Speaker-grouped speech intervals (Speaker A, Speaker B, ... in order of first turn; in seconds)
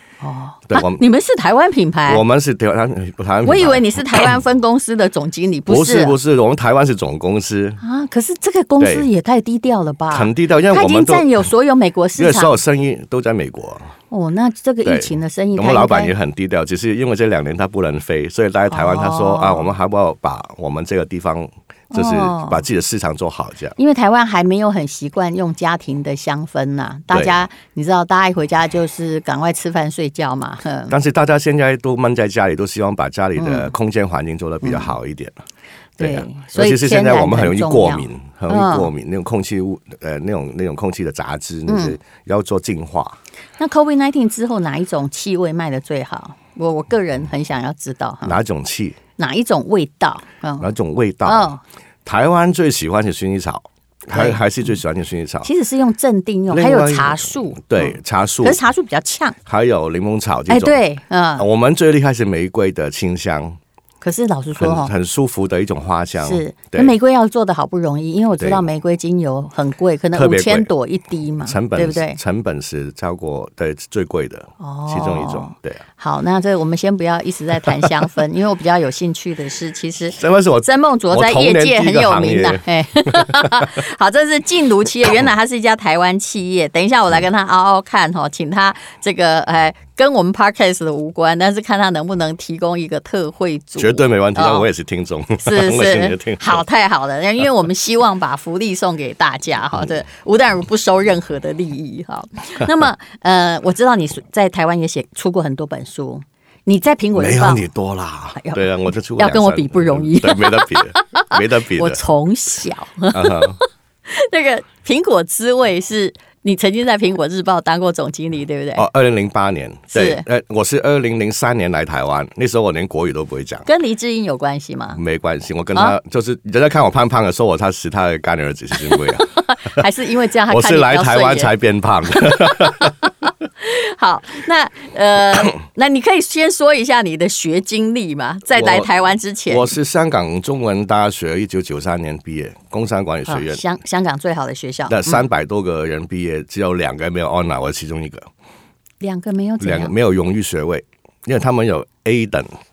Speaker A: 0.2-2.2, 3.4-6.2, 7.8-12.6, 14.1-16.1, 18.7-19.7, 21.9-22.6, 23.8-30.9, 33.4-33.7, 34.6-34.9, 36.0-38.9, 41.7-42.0, 43.6-48.4, 49.2-50.7, 51.2-51.6, 54.1-54.4, 55.4-59.4, 60.5-61.4, 64.0-64.9, 66.2-72.2, 74.6-94.7, 95.4-107.6, 108.4-118.8, 119.9-120.2, 123.7-125.0, 128.8-131.5, 132.2-139.7, 143.3-145.3, 149.0-149.9
Speaker B: 0.7-1.0, 2.1-4.3, 5.7-7.8, 8.8-9.1, 10.1-11.4, 12.2-13.9, 14.8-23.8, 27.1-27.4, 30.9-35.4, 36.0-43.2, 48.2-49.0, 50.6-51.5, 52.0-55.5, 56.5-58.6, 59.5-60.8, 61.4-63.6, 64.6-66.9, 68.4-68.6, 70.1-70.7, 71.4-75.8, 77.7-78.1, 80.2-83.8, 93.8-96.6, 107.1-112.0, 113.1-113.6, 118.8-123.7, 124.9-129.8, 130.5-133.1, 138.5-138.9, 139.5-143.6, 144.9-148.3, 149.6-152.5